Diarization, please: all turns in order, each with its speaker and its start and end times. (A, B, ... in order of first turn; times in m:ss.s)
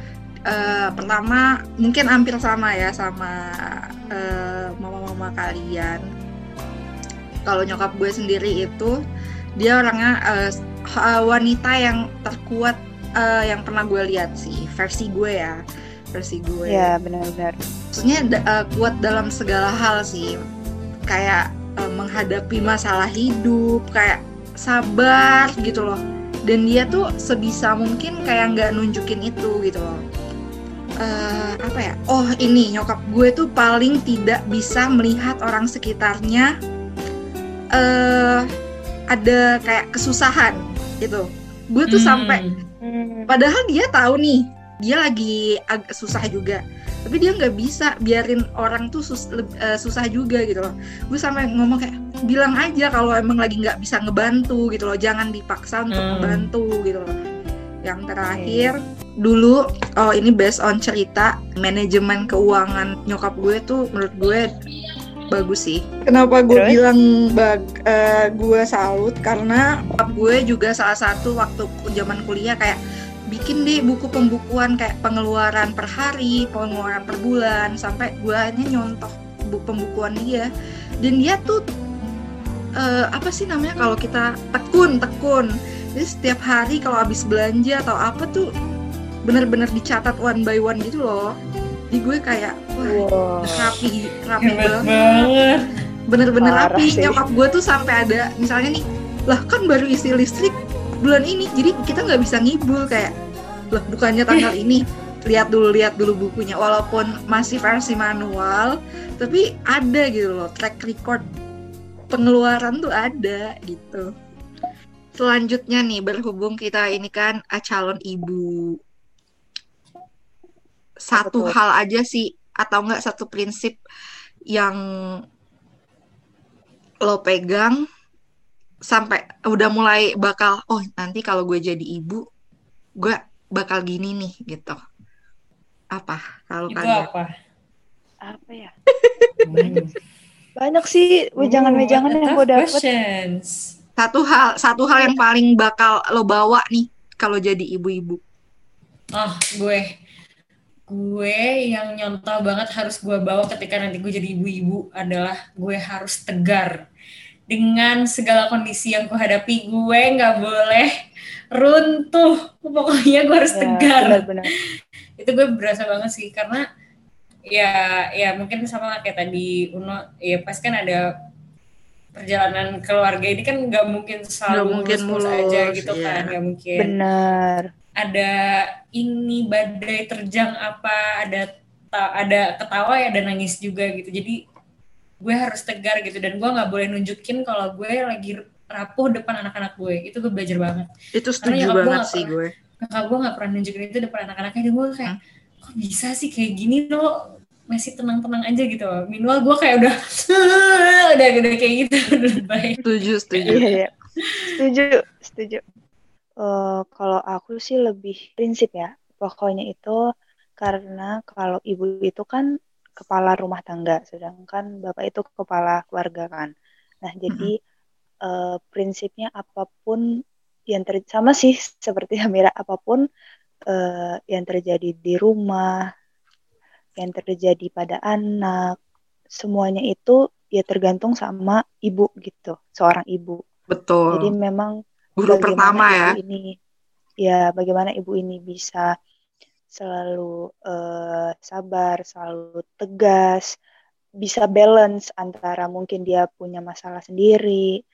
0:00.5-0:03.3 A
0:04.1-0:06.0 A
0:07.4-0:08.9 A
0:09.6-0:15.6 A
0:16.1-0:16.9 A
0:16.7-0:17.6 B
0:17.9-0:20.3 A
0:21.1-0:30.0 A
0:31.0-0:36.5 A
0:37.7-0:38.4 A
0:39.1-0:42.4 A
0:41.9-0:42.6 C
0:42.8-0:43.3 B
0:43.3-0:57.1 A
0:55.9-0:56.5 C
0:57.8-1:04.5 A
0:58.3-0:58.7 B
1:05.3-1:12.8 A
1:06.5-1:06.8 B
1:13.3-1:20.5 A
1:21.0-1:21.6 A
1:22.8-1:28.5 A
1:29.3-1:31.3 A
1:31.9-1:34.9 A
1:32.8-1:33.8 B
1:34.4-1:35.7 C
1:36.1-1:43.1 A
1:36.4-1:37.2 B
1:43.7-1:51.2 A
1:52.1-1:54.0 A
1:55.2-1:58.8 A
2:01.0-2:03.8 A
2:01.1-2:01.5 B
2:07.0-2:07.8 A
2:08.9-2:12.2 A
2:13.0-2:14.8 A
2:15.9-2:17.1 A
2:16.7-2:17.3 C
2:18.3-2:18.7 B
2:19.0-2:19.3 A
2:19.4-2:19.9 C
2:19.5-2:19.8 B
2:20.6-2:22.8 B
2:21.4-2:23.6 C
2:24.0-2:28.2 A
2:29.2-2:29.9 C
2:30.9-2:36.7 C
2:37.5-2:40.9 C
2:41.5-2:44.2 C
2:43.5-2:44.5 B
2:45.2-2:46.6 C
2:47.5-2:51.0 C
2:52.2-2:56.9 C
2:54.5-2:56.3 A
2:56.8-2:57.7 B
2:58.0-2:58.3 C
2:59.0-3:04.4 C
3:05.2-3:10.9 C
3:11.1-3:12.5 A
3:11.4-3:17.1 C
3:17.7-3:22.8 C
3:22.8-3:23.7 A
3:23.4-3:23.9 B
3:24.5-3:25.6 B
3:26.4-3:30.0 B
3:30.6-3:32.4 B
3:33.0-3:36.5 B
3:37.0-3:37.6 B
3:38.3-3:40.0 B
3:40.7-3:43.0 B
3:43.7-3:45.8 B
3:47.0-3:48.7 B
3:49.4-3:53.4 B
3:53.7-3:54.3 A
3:54.1-3:54.7 B
3:55.2-3:56.1 A
3:55.3-3:56.4 B
3:57.2-3:58.9 B
3:59.7-4:03.5 B
4:04.2-4:07.7 B